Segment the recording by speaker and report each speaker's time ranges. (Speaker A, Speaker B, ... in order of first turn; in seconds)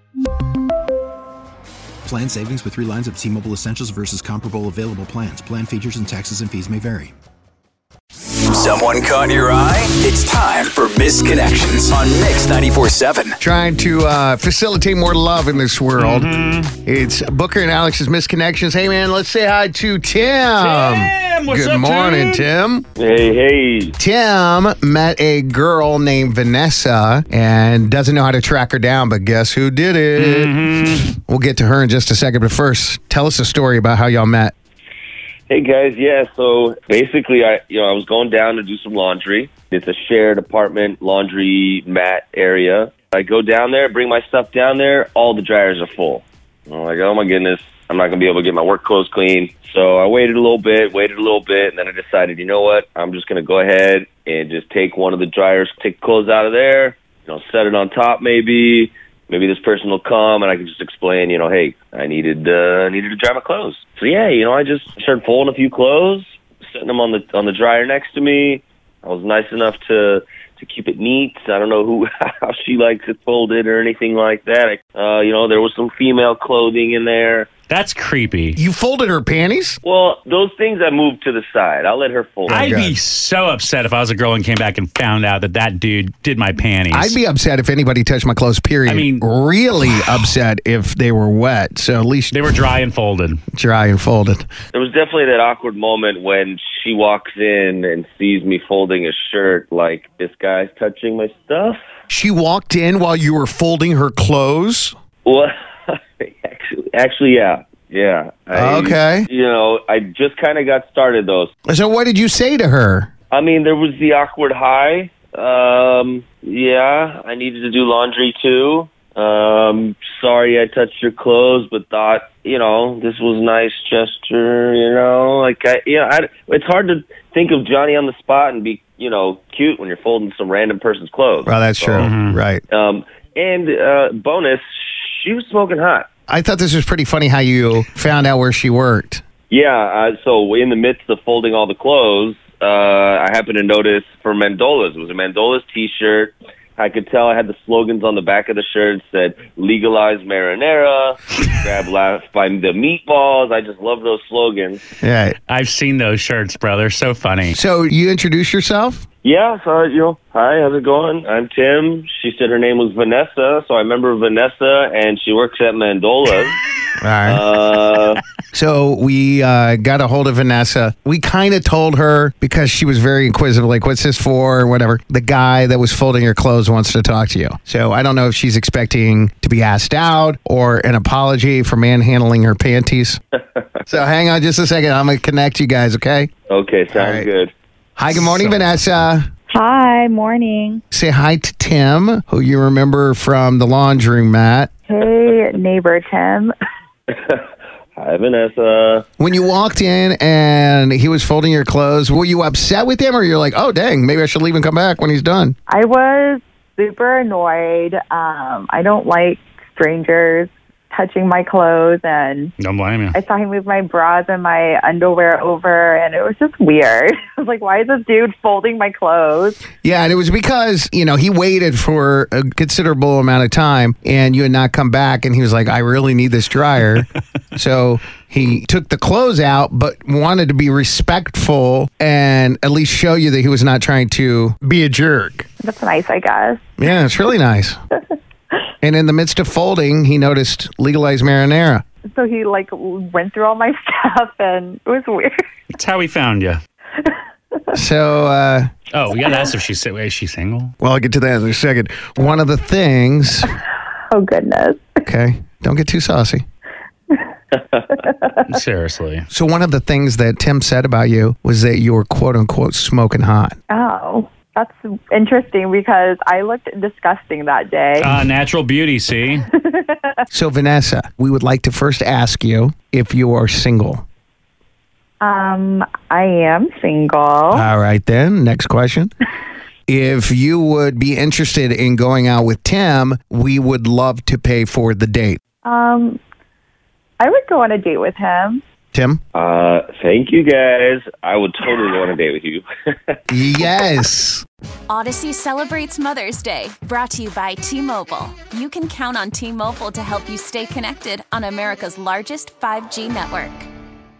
Speaker A: 2.0-7.1
Speaker B: 8.5-13.3
Speaker C: 13.4-16.3, 16.8-22.8, 24.0-30.6, 31.2-34.5, 78.6-79.8, 82.5-83.0, 86.9-92.4, 93.5-94.5, 102.1-104.9, 108.5-109.3, 111.7-113.1, 131.4-132.6, 136.3-139.2, 155.0-155.3, 157.5-159.1, 167.0-167.4, 168.5-183.2, 183.8-186.3, 186.9-187.3, 187.9-189.2, 190.9-194.7, 199.2-205.6, 219.8-235.5, 236.8-237.8, 238.8-241.8, 247.7-248.7, 250.8-253.5, 255.0-256.4, 259.3-263.6, 270.3-274.0, 277.5-279.1, 279.9-285.4, 288.9-289.2, 293.3-294.4
Speaker D: 16.0-16.7, 20.6-22.5, 30.2-31.1, 77.7-78.6, 82.5-87.2, 88.8-89.2, 92.3-93.4, 132.0-132.3, 155.5-157.6, 212.6-213.2, 245.7-246.6, 248.9-250.7, 258.5-259.2, 268.0-269.5
Speaker E: 23.0-23.9, 35.5-77.5, 79.8-82.8, 94.7-101.8, 105.2-111.5, 113.3-132.1, 132.7-136.1, 139.5-154.8, 159.2-166.6, 167.2-168.2, 186.5-187.5, 197.1-197.4, 198.0-199.1, 289.4-293.7
Speaker F: 189.5-190.8, 194.9-196.5, 205.7-212.5, 213.1-219.6, 235.6-236.7, 242.1-245.4, 254.1-254.8, 257.9-258.4, 263.7-268.2, 269.6-270.1, 275.2-277.7, 285.6-286.2, 287.2-288.6
Speaker G: 294.9-303.7